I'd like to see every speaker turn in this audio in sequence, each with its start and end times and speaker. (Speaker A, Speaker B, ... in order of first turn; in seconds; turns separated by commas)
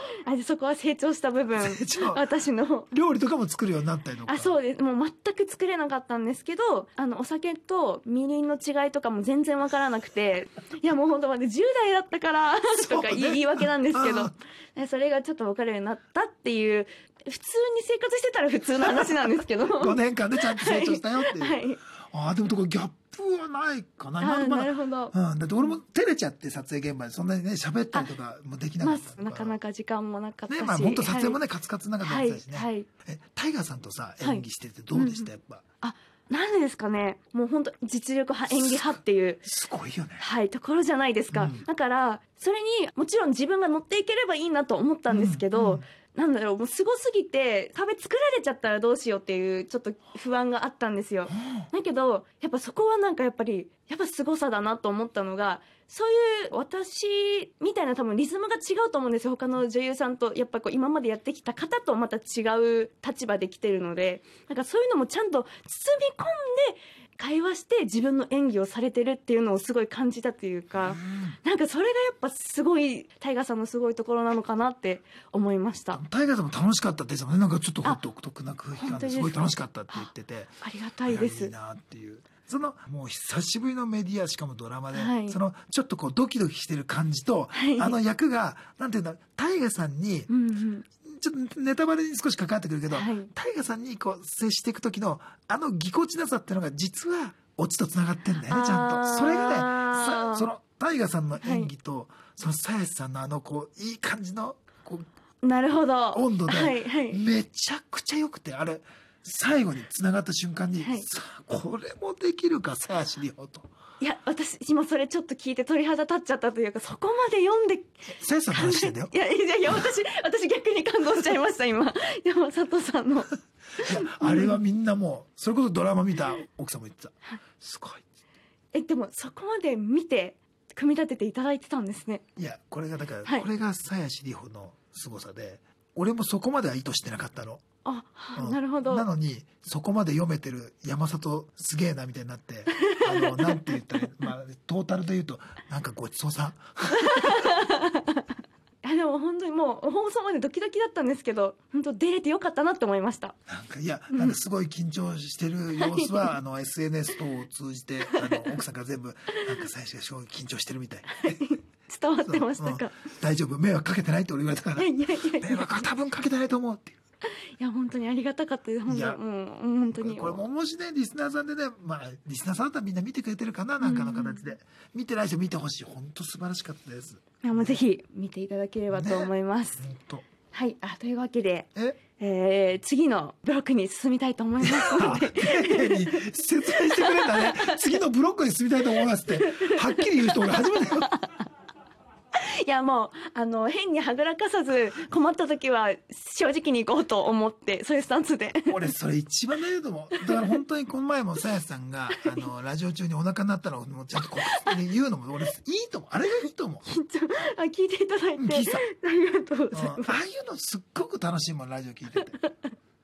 Speaker A: 0.1-2.9, Speaker B: 1.6-2.3, Speaker B: 2.9-4.6, Speaker A: 4.3-20.0, Speaker B: 12.7-14.3, Speaker B: 18.9-29.6, Speaker A: 20.6-21.8, Speaker A: 24.2-25.7, Speaker A: 28.8-31.4, Speaker B: 30.5-35.6, Speaker A: 32.0-32.9, Speaker A: 34.2-35.3, Speaker A: 35.8-39.5, Speaker B: 38.5-40.2, Speaker A: 40.2-76.0, Speaker B: 41.3-41.6, Speaker B: 45.1-45.8, Speaker B: 51.3-51.7, Speaker B: 70.7-71.4, Speaker B: 75.9-90.3, Speaker A: 78.8-80.1, Speaker A: 80.6-81.5, Speaker A: 84.9-85.4, Speaker A: 87.5-88.0, Speaker A: 90.3-90.8, Speaker B: 91.0-105.0, Speaker A: 92.9-93.3, Speaker A: 98.5-100.5, Speaker A: 101.4-101.7, Speaker A: 105.4-107.2, Speaker B: 106.1-113.7, Speaker A: 110.8-111.0, Speaker A: 114.0-124.6, Speaker B: 118.2-119.1, Speaker B: 123.8-128.0, Speaker A: 128.7-132.2, Speaker B: 132.4-137.6, Speaker A: 137.8-139.1, Speaker B: 138.4-147.6, Speaker A: 142.8-144.1, Speaker A: 147.0-148.2, Speaker A: 148.8-153.3, Speaker B: 153.5-161.4, Speaker A: 155.8-156.4, Speaker A: 158.1-158.5, Speaker A: 161.1-162.9, Speaker B: 162.2-167.0, Speaker A: 164.8-165.9, Speaker A: 167.6-170.4, Speaker B: 168.9-169.2, Speaker B: 169.9-177.8, Speaker A: 173.8-174.5, Speaker A: 177.4-179.8, Speaker B: 178.9-180.2, Speaker A: 180.5-188.0, Speaker B: 184.6-191.1, Speaker A: 189.5-191.3, Speaker A: 192.3-198.7, Speaker B: 198.7-206.8, Speaker A: 204.5-204.8, Speaker A: 206.9-210.2, Speaker B: 208.4-208.8, Speaker B: 209.7-212.4